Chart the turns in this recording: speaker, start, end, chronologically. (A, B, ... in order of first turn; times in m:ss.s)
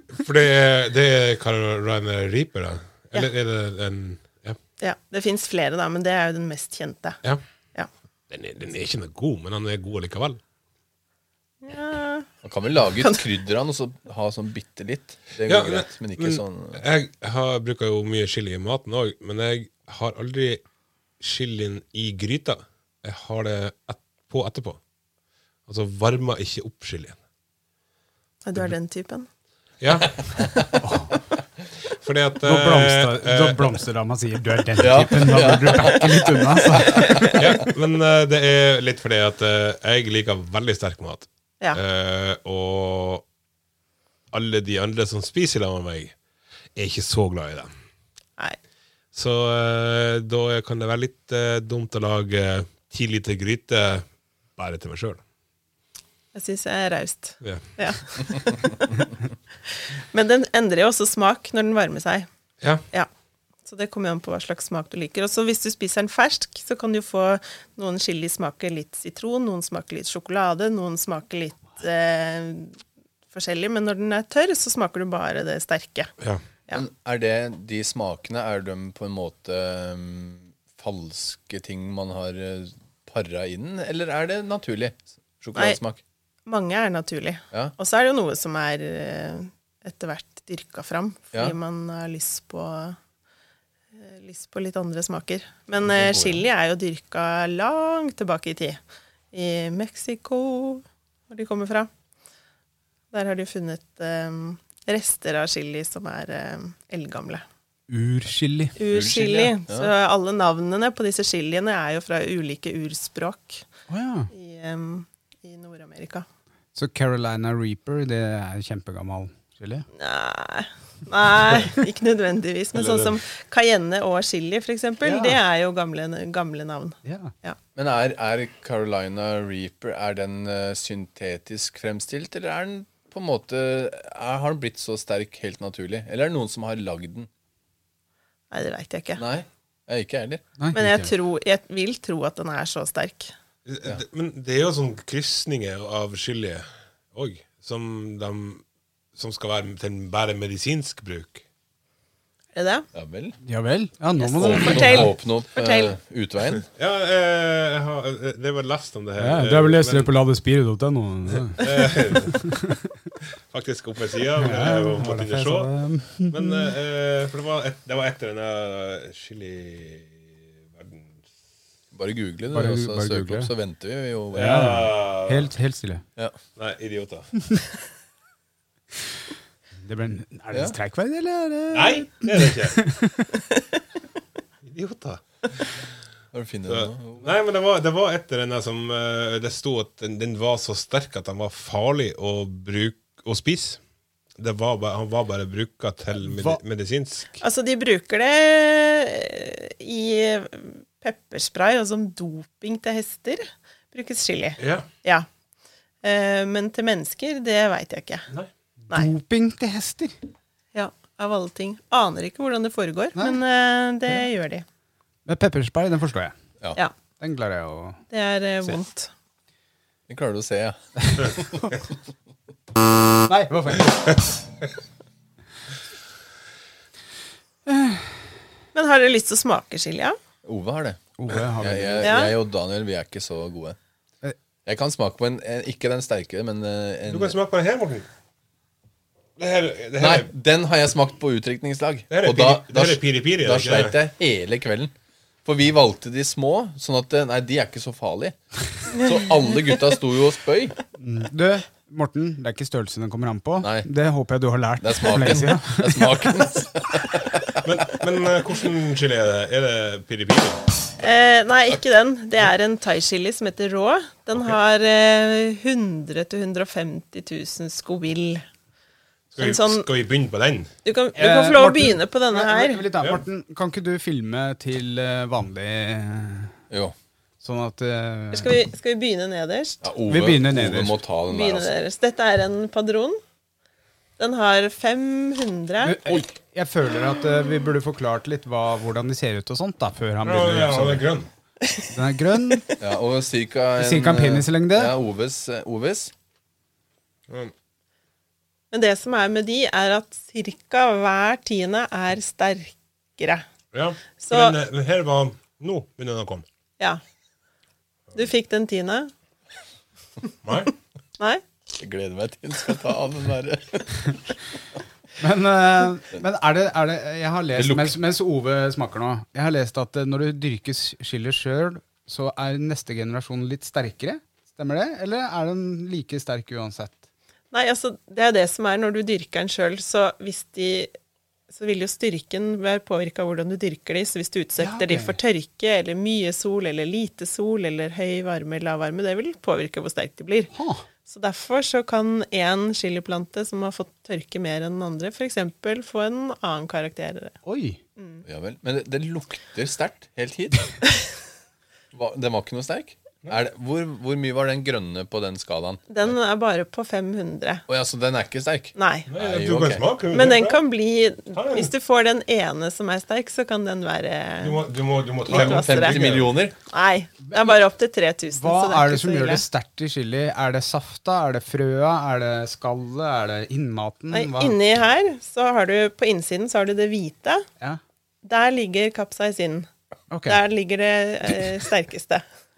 0:00.1-0:04.6 A
0:04.8-0:07.2 B
0:08.3-0:10.4 A
0:11.6-0:12.3 B
0:12.4-0:16.8 C
0:15.4-0:20.6 A
0:21.2-0:24.8 A
0:25.7-0:27.2 A
0:28.4-0:29.3 B
0:29.8-0:30.5 A
0:30.4-0:30.6 C
0:30.8-0:31.1 D
0:31.9-0:33.7 A
0:32.4-0:37.3 D
0:34.8-0:37.6 C
0:37.3-0:43.2 A
0:44.3-0:46.1 A
0:46.7-0:47.7 A
0:49.1-0:54.0 A
0:54.6-0:55.2 A
0:56.3-0:59.1 B
0:57.4-0:57.7 A
0:59.7-1:02.3 B
1:03.6-1:12.8 B
1:13.3-1:16.1 B
1:16.7-1:26.0 C
1:26.4-1:33.0 B
1:33.9-1:38.8 B
1:35.8-1:36.4 C
1:39.3-1:41.9 B
1:43.1-1:47.4 B
1:47.9-1:48.7 D
1:48.8-1:53.6 B
1:48.9-1:49.9 C
1:53.9-1:54.3 D
1:54.3-1:56.2 B
1:56.7-1:59.8 D
1:59.9-2:07.6 B
2:02.7-2:03.2 A
2:05.0-2:05.4 D
2:07.0-2:07.3 D
2:07.8-2:17.3 C
2:18.5-2:19.2 B
2:19.2-2:20.4 C
2:20.6-2:21.1 D
2:20.7-2:23.3 B
2:23.6-2:28.6 A
2:29.2-2:31.4 A
2:32.5-2:32.9 B
2:32.9-2:33.4 C
2:33.4-2:35.1 D
2:34.2-2:35.9 B
2:34.4-2:36.6 C
2:36.7-2:40.1 A
2:39.2-2:42.8 D
2:41.5-2:42.4 A
2:43.5-2:51.2 A
2:44.4-2:46.7 D
2:51.9-2:54.7 C
2:52.5-2:53.5 D
2:54.3-2:55.5 A
2:54.4-2:56.0 D
2:56.6-2:57.3 A
2:59.8-3:03.3 D
3:01.7-3:02.8 A
3:04.6-3:05.7 A
3:06.3-3:07.3 C
3:06.7-3:13.8 A
3:14.4-3:17.4 A
3:16.2-3:16.6 D
3:17.4-3:25.3 B
3:24.6-3:24.9 A
3:26.0-3:28.3 B
3:28.9-3:30.1 D
3:30.7-3:34.6 B
3:35.2-3:36.3 D
3:37.2-3:38.0 D
3:38.1-3:39.1 B
3:40.1-3:41.8 C
3:43.3-3:44.2 D
3:47.7-3:48.1 D
3:48.7-3:50.2 B
3:50.4-3:51.0 C
3:51.2-3:52.1 D
3:51.6-3:53.8 C
3:52.0-3:52.3 B
3:54.6-3:57.4 C
3:57.1-3:58.1 A
3:59.4-4:00.3 A
4:00.0-4:04.9 C
4:02.1-4:04.0 A
4:05.4-4:10.8 C
4:08.9-4:09.2 B
4:11.0-4:16.3 D
4:13.6-4:13.9 C
4:14.8-4:17.6 C
4:17.6-4:20.6 A
4:21.0-4:28.4 B
4:29.3-4:30.7 A
4:29.4-4:29.9 B
4:30.8-4:32.8 B
4:31.2-4:36.5 D
4:36.7-4:36.9 C
4:37.4-4:38.5 D
4:38.3-4:39.8 B
4:39.8-4:41.7 C
4:40.1-4:41.0 D
4:41.3-4:43.2 B
4:44.2-4:46.2 B
4:45.8-4:51.0 D
4:50.2-4:51.3 A
4:51.9-4:52.6 D
4:52.8-4:56.1 C
4:53.8-4:54.9 D
4:58.7-5:03.4 B
5:03.7-5:06.4 A
5:04.2-5:04.6 B
5:08.1-5:09.1 B
5:10.4-5:10.7 A
5:11.8-5:14.2 C
5:15.2-5:27.0 D
5:17.5-5:18.0 C
5:27.5-5:30.9 B
5:31.5-5:40.5 B
5:34.6-5:35.2 D
5:40.5-5:40.8 D
5:41.0-5:47.3 B
5:47.4-5:47.8 D
5:48.0-5:48.2 B
5:48.2-5:50.7 C
5:51.9-5:56.1 C
5:55.9-5:57.6 B
5:57.7-5:59.9 C
5:58.7-5:59.1 B
5:59.1-6:00.6 A
6:00.1-6:04.6 B
6:01.3-6:01.7 A
6:04.4-6:06.3 A
6:05.2-6:09.4 B
6:05.3-6:06.5 C
6:07.3-6:07.6 D
6:08.3-6:14.6 D
6:14.1-6:17.4 B
6:18.2-6:19.7 B
6:20.1-6:20.4 D
6:20.3-6:22.2 B